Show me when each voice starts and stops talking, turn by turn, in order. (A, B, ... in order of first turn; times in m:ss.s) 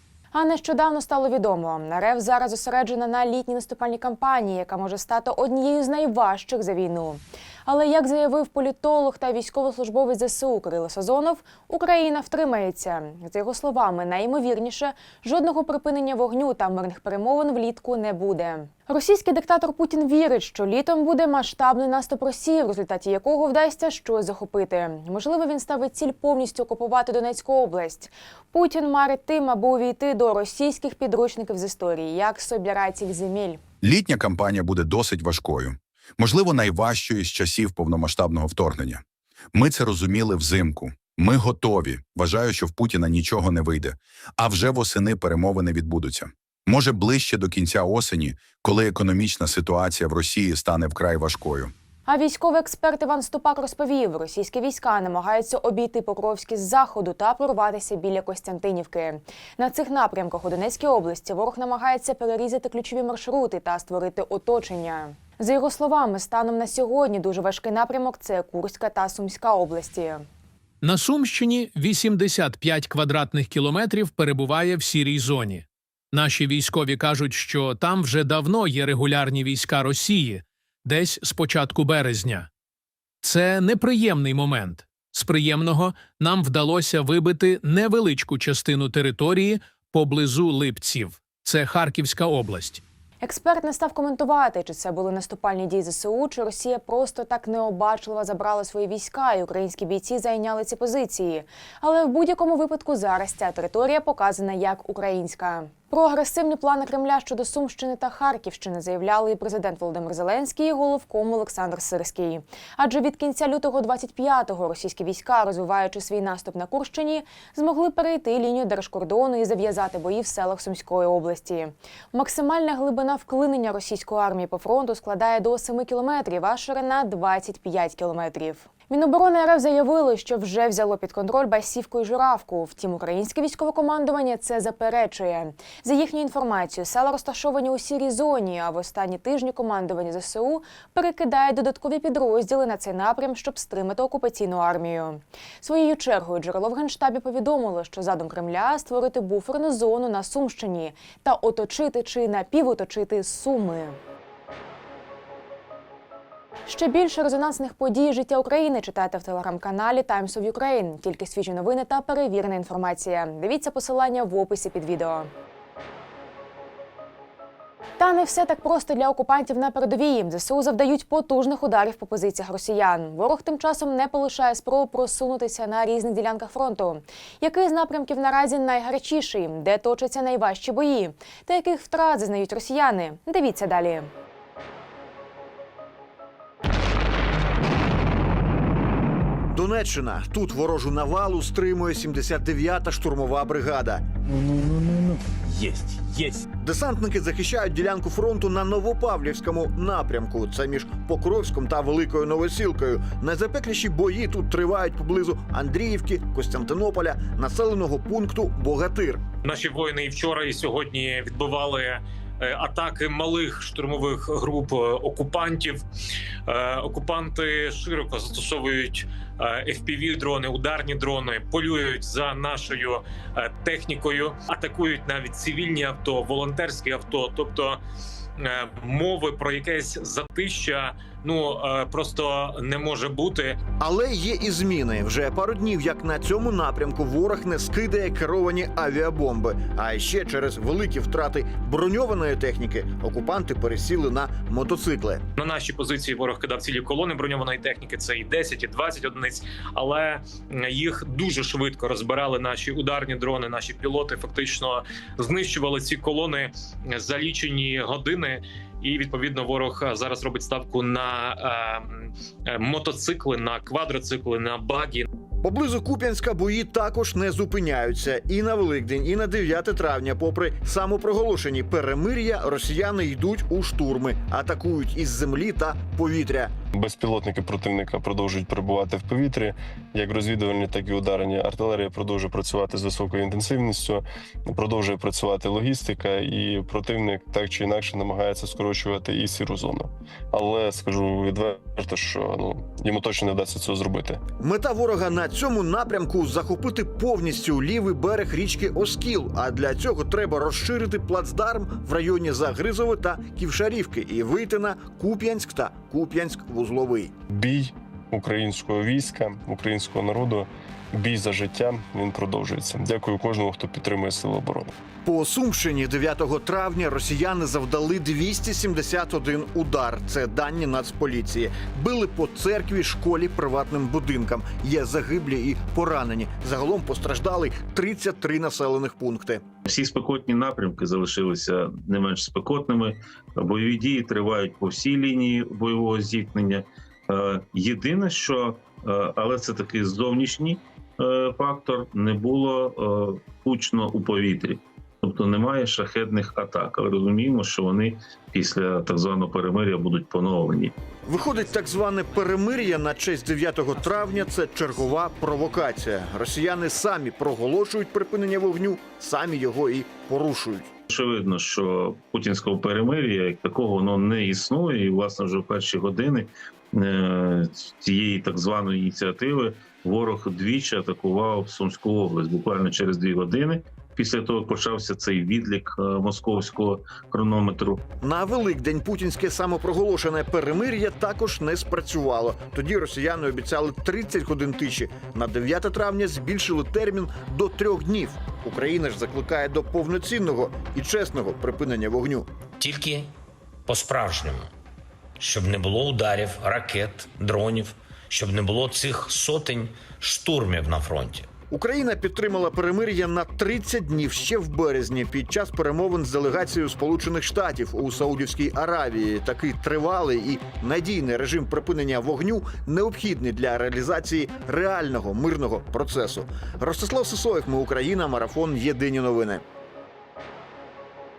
0:00.3-0:33.6 A
0:33.8-0:39.0 B
0:39.5-0:51.7 B
0:52.1-1:10.2 A
1:10.8-1:22.5 C
1:23.2-1:32.8 C
1:33.2-2:34.0 A
2:36.7-2:45.3 A
2:48.0-3:04.1 A
3:09.5-3:14.0 D
3:16.6-3:29.2 D
3:29.4-3:35.8 E
3:36.5-3:47.8 E
3:48.4-3:53.6 E
3:53.8-4:05.2 D
4:05.4-4:25.1 E
4:25.4-4:36.5 D
4:36.7-4:54.2 F
4:54.4-5:07.1 D
5:07.3-5:14.7 F
5:15.0-5:29.4 D
5:29.6-5:50.7 G
5:51.0-6:00.7 D
6:00.9-6:17.8 G
6:18.0-6:32.3 D
6:32.6-6:33.1 H
6:33.7-6:34.5 H
6:35.2-6:41.3 H
6:41.5-6:59.4 D